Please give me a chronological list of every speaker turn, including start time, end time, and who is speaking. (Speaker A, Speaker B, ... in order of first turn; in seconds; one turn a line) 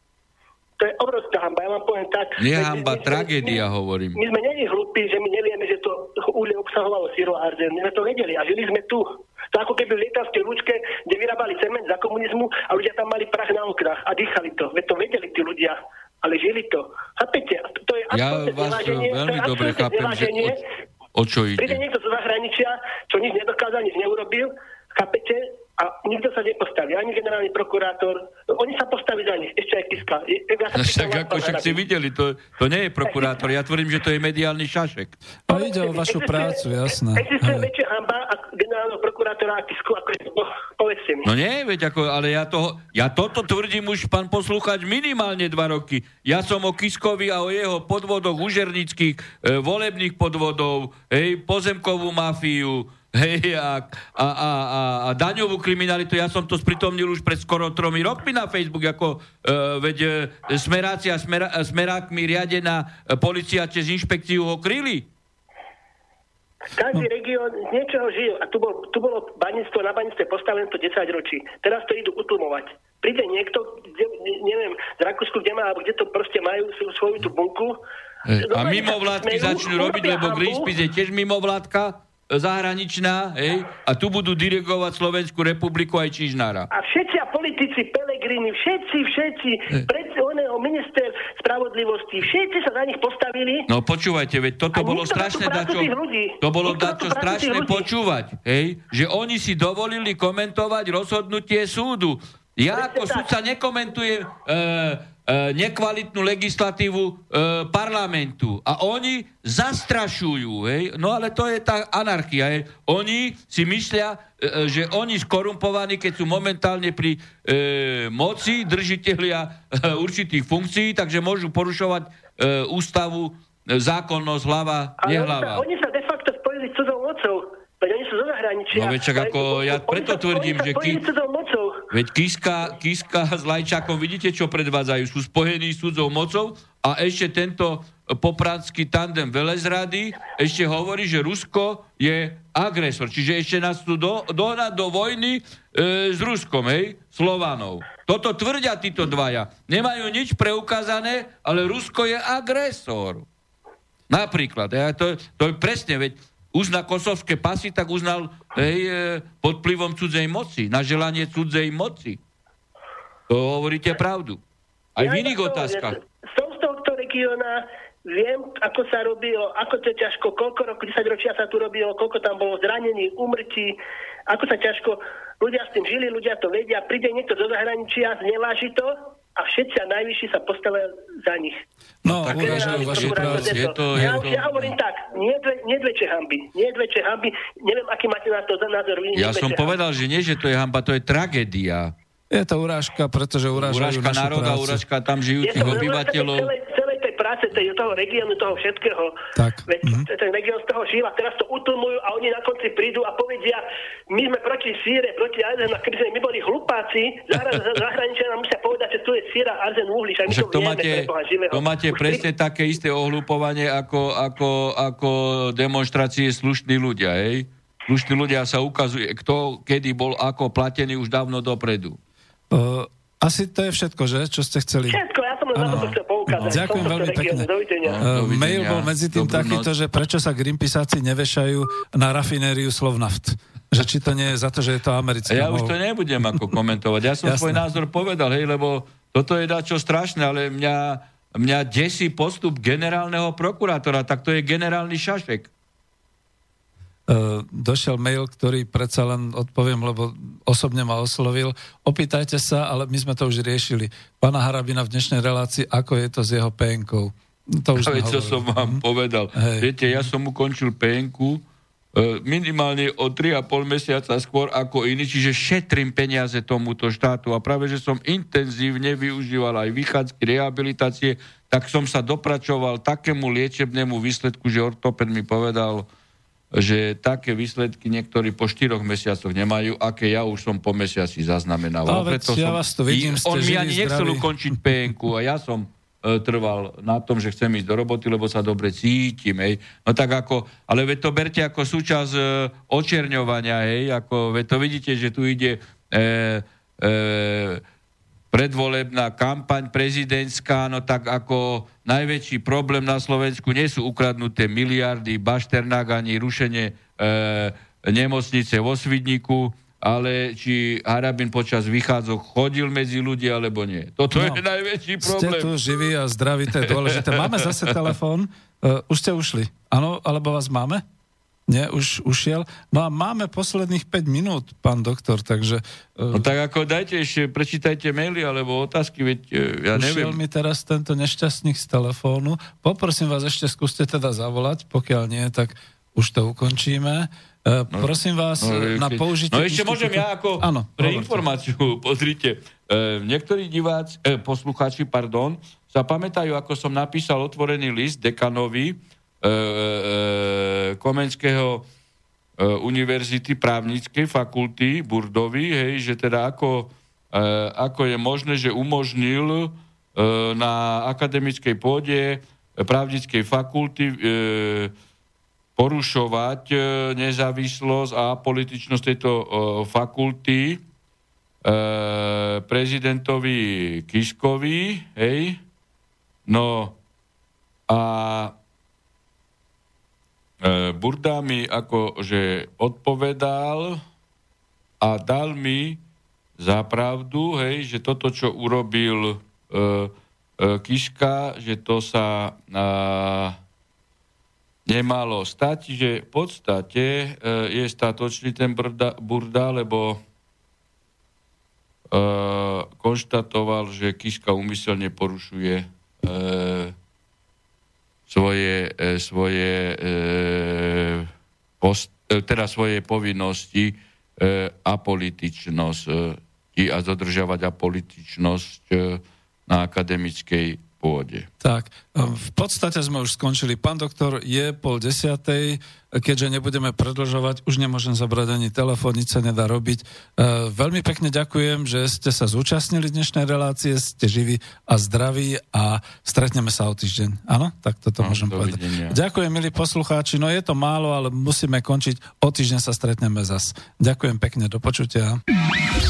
Speaker A: 0.8-3.6
Speaker B: 2.4-4.2
Speaker A: 4.1-20.6
Speaker B: 18.1-20.6
Speaker B: 21.1-21.8
Speaker A: 21.6-31.8
Speaker B: 30.7-35.1
Speaker A: 33.1-33.3
Speaker C: 35.5-37.7
Speaker A: 35.5-41.3
Speaker B: 41.2-65.1
Speaker A: 66.8-77.8
Speaker B: 78.2-86.7
Speaker A: 78.4-80.7
Speaker A: 86.7-93.7
Speaker B: 93.7-125.6
Speaker A: 94.7-97.8
Speaker A: 102.7-103.3
Speaker A: 125.0-131.8
Speaker B: 128.7-131.0
Speaker B: 131.9-153.3
Speaker B: 154.1-162.2
Speaker B: 163.3-164.4
Speaker B: 164.9-166.0
Speaker A: 165.0-173.8
Speaker A: 174.3-181.6
Speaker C: 182.0-183.7
Speaker B: 182.1-184.7
Speaker A: 182.2-189.8
Speaker B: 189.1-191.9
Speaker C: 192.3-194.8
Speaker B: 193.5-196.5
Speaker A: 195.4-199.1
Speaker C: 199.3-200.1
Speaker A: 199.7-212.2
Speaker B: 210.3-222.0
Speaker C: 222.5-225.0
Speaker A: 224.9-228.0
Speaker C: 225.6-227.5
Speaker B: 225.7-227.0
Speaker B: 227.8-229.7
Speaker C: 228.0-236.5
Speaker B: 235.2-245.5
Speaker C: 237.2-237.6
Speaker C: 247.1-258.8
Speaker B: 257.7-275.9
Speaker C: 259.3-260.1
Speaker B: 276.5-297.6
Speaker C: 281.9-284.6
Speaker B: 298.3-315.6
Speaker C: 314.1-314.4
Speaker C: 315.0-320.8
Speaker B: 316.6-317.9
Speaker C: 321.5-326.3
Speaker B: 326.1-330.2
Speaker C: 329.7-341.2
Speaker B: 337.7-351.7
Speaker B: 352.4-364.7
Speaker B: 365.6-370.6
Speaker B: 371.4-375.4
Speaker B: 376.3-376.7
Speaker B: 377.7-378.3
Speaker B: 380.4-383.8
Speaker B: 384.8-385.8
Speaker B: 386.4-393.4
Speaker B: 394.6-400.0
Speaker B: 401.9-406.7
Speaker B: 408.1-411.1
Speaker B: 411.6-421.3
Speaker C: 421.4-445.2
Speaker B: 438.0-439.0